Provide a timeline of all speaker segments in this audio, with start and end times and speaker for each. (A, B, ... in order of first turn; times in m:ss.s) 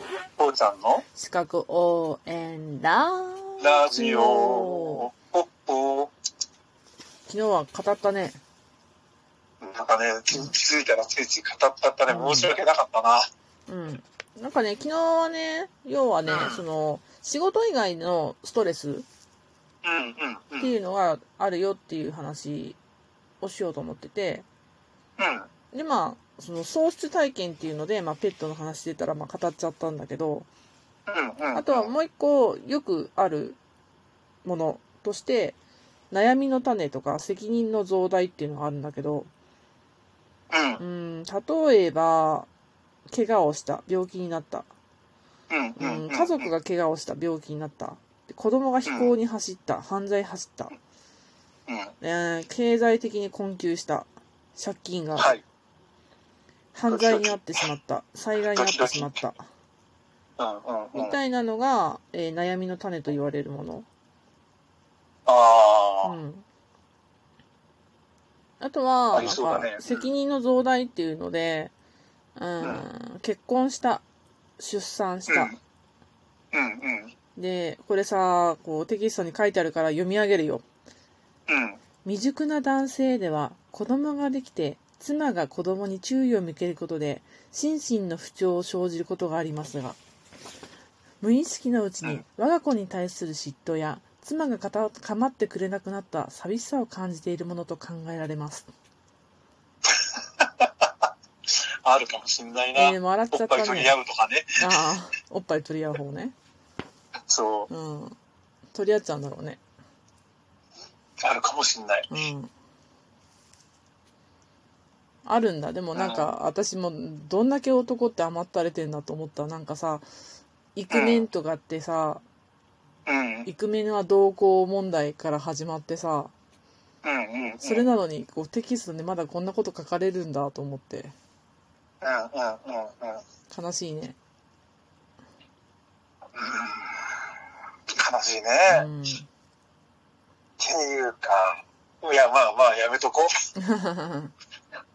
0:00.4-0:01.0 A
0:01.1-0:05.1 B
0:03.6-0:06.1 A
0:07.3-0:08.4 B
0:09.6-0:13.3 A
0:12.1-0:12.5 B
0:13.7-0:19.0 B
0:16.3-0:16.6 A
0:19.8-0:20.7 A
0:20.6-0:22.8 B
0:23.4-0:24.4 B
0:25.2-0:25.5 A
0:25.7-0:30.5 B
0:31.1-0:31.9 A
0:31.5-0:33.6 B
0:34.4-0:35.6 B
0:36.1-0:39.3 B
0:40.5-0:40.8 A
0:40.8-0:42.5 B
0:43.1-0:44.7 B
0:45.5-0:46.5 A
0:45.8-0:50.7 B
0:48.8-0:49.1 A
0:51.7-0:51.9 A
0:52.0-0:55.3 B
0:55.2-0:55.4 A
0:56.7-0:59.4 B
0:56.9-0:57.4 A
0:58.5-0:59.2 A
1:00.4-1:01.2 A
1:00.9-1:03.8 B
1:05.2-1:06.1 A
1:06.0-1:06.4 B
1:08.6-1:11.7 B
1:09.1-1:10.0 A
1:12.4-1:14.0 B
1:14.6-1:15.5 B
1:15.3-1:15.6 A
1:16.5-1:17.1 A
1:17.4-1:20.6 B
1:21.5-1:21.8 A
1:22.0-1:30.0 B
1:31.2-1:38.7 B
1:40.0-1:41.0 A
1:41.8-1:44.6 A
1:42.7-1:43.9 B
1:44.6-1:46.3 B
1:47.3-1:47.7 A
1:47.7-1:48.2 B
1:48.7-1:49.6 B
1:51.2-1:52.1 A
1:52.1-1:52.5 B
1:55.2-2:00.0 B
1:56.0-1:56.3 A
2:00.7-2:02.2 B
2:00.9-2:01.2 A
2:03.0-2:03.5 A
2:03.4-2:06.3 B
2:07.0-2:07.9 A
2:07.6-2:11.1 B
2:12.0-2:13.2 A
2:13.5-2:14.2 B
2:16.3-2:17.1 A
2:17.9-2:18.9 A
2:18.7-2:19.3 B
2:20.6-2:23.4 A
2:23.6-2:24.3 B